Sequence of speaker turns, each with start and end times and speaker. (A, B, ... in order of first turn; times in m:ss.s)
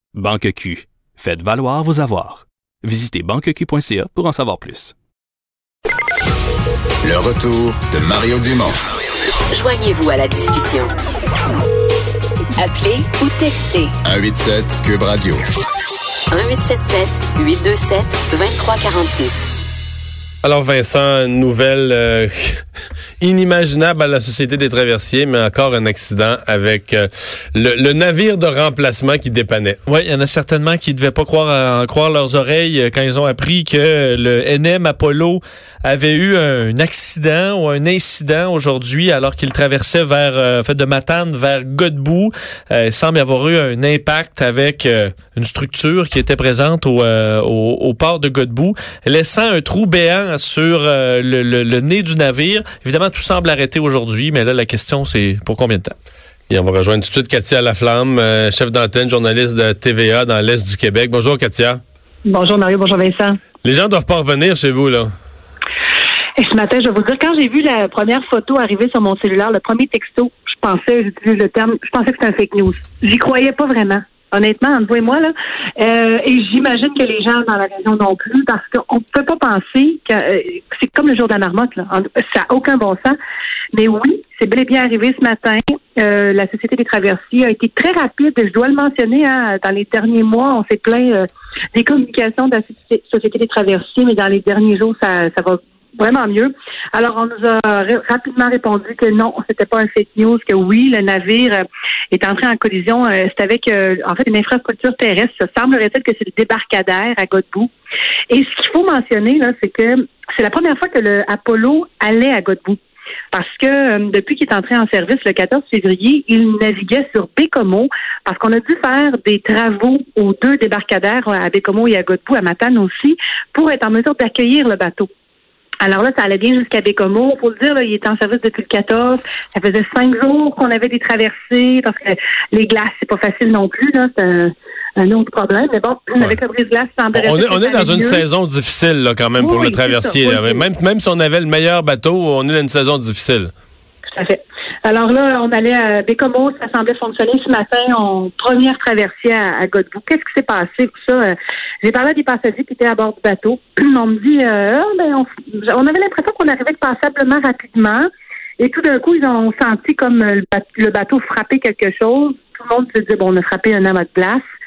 0:00.1-0:05.0 A
0:07.0-0:08.8 B
0:09.5-0:11.0 C
0:12.6-0:13.9 C
0:14.0-0:15.4 B
0:16.3-0:19.5 C
0:20.4-0:22.6 D
0:23.2-0:29.8 D
0:29.9-0:55.9 E
0:56.5-1:01.8 D
1:02.2-1:03.4 F
1:03.6-1:05.1 D
1:06.4-1:23.2 F
1:23.7-1:47.7 F
1:48.3-1:52.8 F
1:53.3-2:05.1 F
2:05.8-2:18.2 F
2:17.1-2:23.5 D
2:19.4-2:20.6 F
2:24.1-2:38.1 F
2:38.6-2:44.4 F